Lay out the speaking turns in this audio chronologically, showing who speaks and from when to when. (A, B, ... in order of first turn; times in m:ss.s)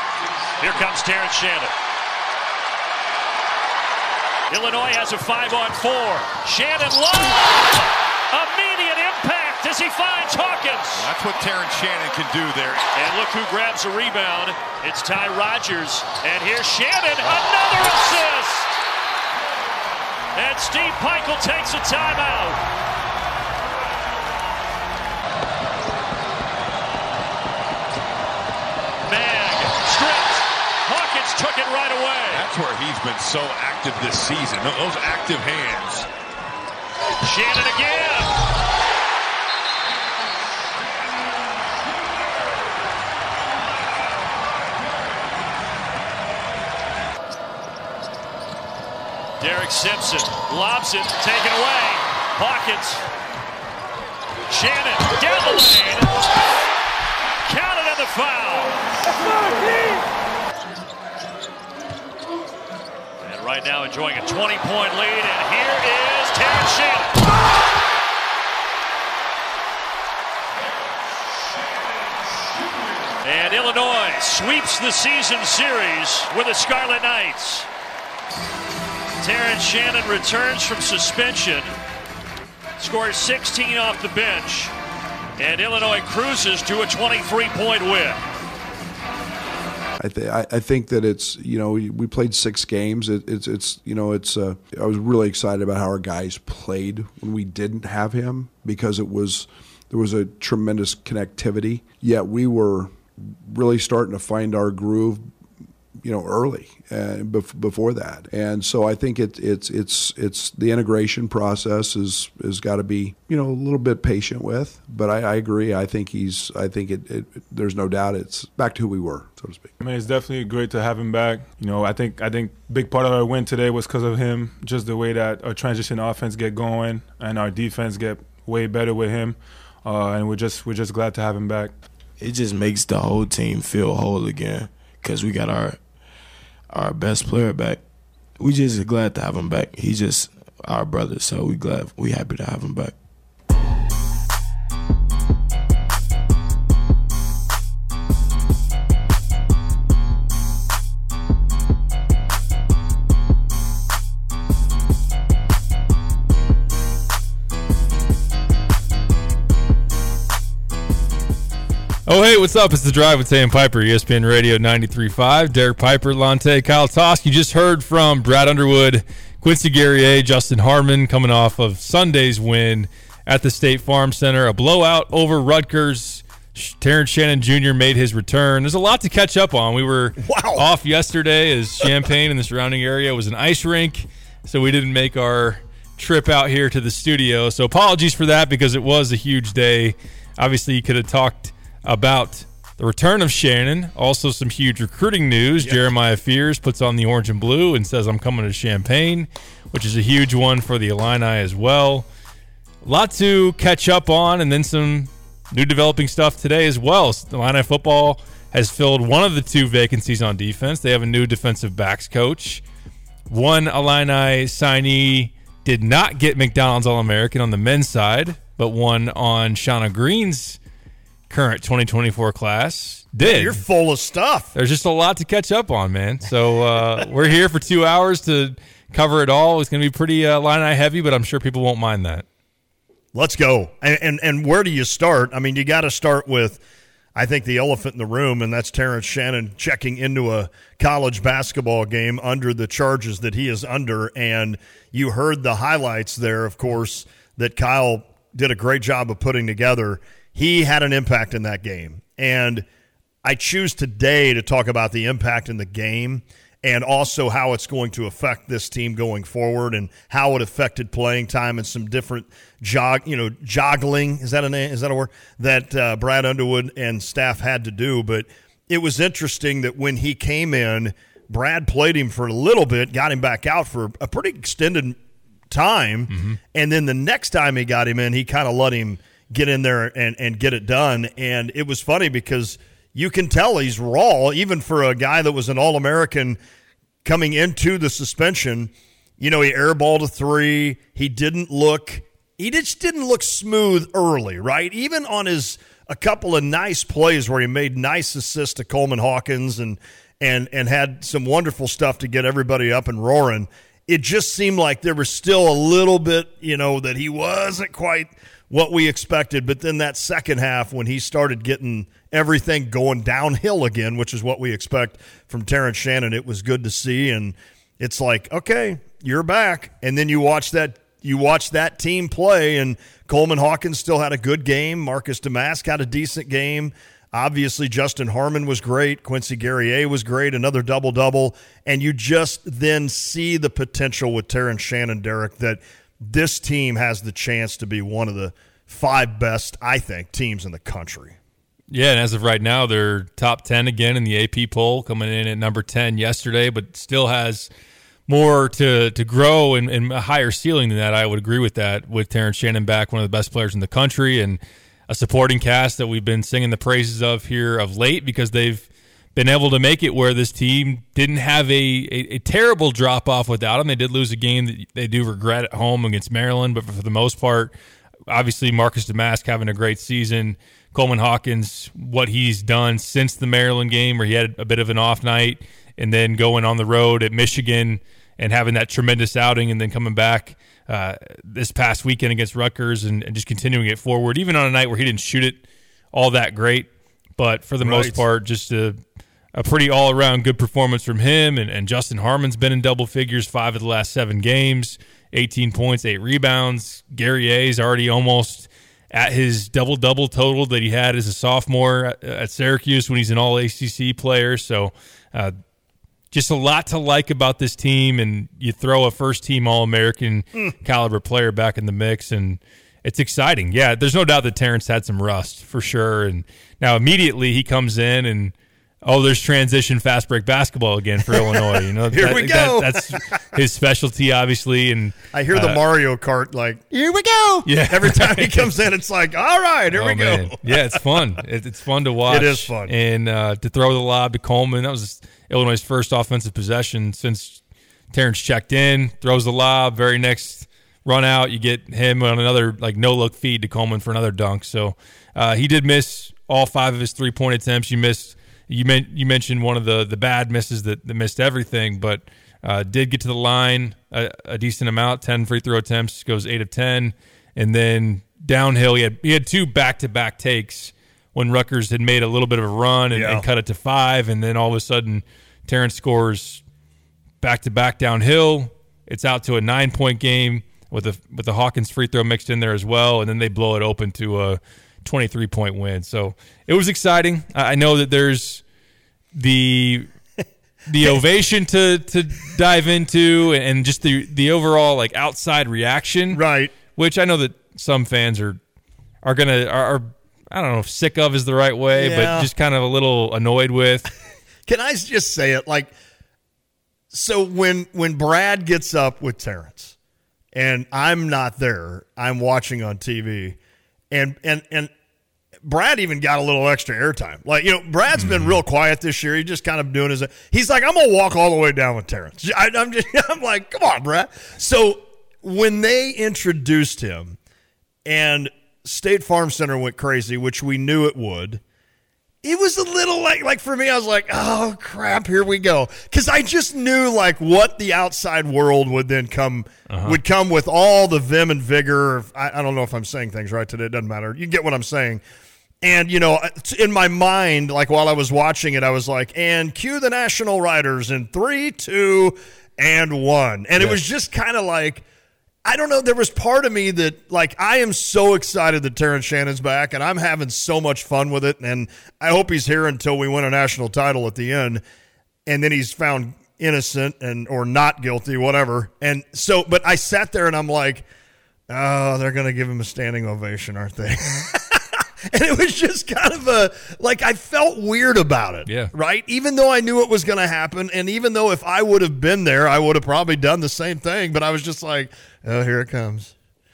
0:00.6-0:01.7 A
0:04.5-0:11.1 A
0:10.9-0:12.9 B
0:12.9-0:18.7 A
0:20.3-0:22.6 A
0:29.0-0:32.5 A
0:32.3-0:36.1 B
0:37.2-0:38.4 A
0:49.4-0:53.0 A
0:54.5-0:56.2 A
0:57.4-0:58.8 A
1:03.2-1:07.2 A
1:13.2-1:17.7 A
1:19.2-1:21.7 A
1:22.8-1:24.7 A
1:25.4-1:28.2 A
1:30.0-1:45.3 C
1:46.0-1:59.7 C
1:59.8-2:11.7 D
2:12.2-2:15.8 E
2:16.7-2:17.8 E
2:18.4-2:22.9 E
2:42.1-3:22.0 F
3:00.2-3:00.7 G
3:22.8-3:32.6 F
3:33.3-3:40.6 F
3:41.3-3:43.6 F
3:43.2-3:44.5 G
3:44.5-3:52.2 F
3:53.1-3:56.6 G
3:57.1-4:12.6 G
4:13.2-4:35.0 G
4:35.5-4:46.4 G
4:36.1-4:36.4 F
4:47.0-5:41.2 G
5:41.7-5:47.5 F
5:48.1-6:07.5 F
6:08.1-6:28.8 F
6:27.6-6:28.0 G
6:29.3-6:45.4 F
6:46.1-6:58.3 F
6:58.8-7:05.6 F
7:01.1-7:03.2 G
7:05.1-7:10.8 G
7:07.4-7:08.5 F
7:09.7-7:17.4 F
7:12.1-7:12.7 G
7:17.9-7:46.4 F
7:42.9-7:43.2 G
7:47.2-7:58.4 F
7:59.1-7:59.9 F
8:00.7-8:06.2 F
8:06.1-8:06.5 G
8:06.7-8:08.4 F
8:09.0-8:13.9 F
8:11.7-8:12.3 G
8:14.4-8:15.7 G
8:16.9-8:19.7 G
8:20.3-8:23.4 G
8:23.9-8:24.7 G
8:25.4-8:37.2 G
8:27.9-8:28.4 F
8:37.8-8:41.4 G
8:42.2-8:55.0 G
8:49.7-8:50.0 F
8:55.6-9:04.8 G
9:03.6-9:03.8 F
9:05.4-9:14.6 G
9:15.2-9:20.8 G
9:21.5-9:36.1 G
9:28.4-9:28.7 F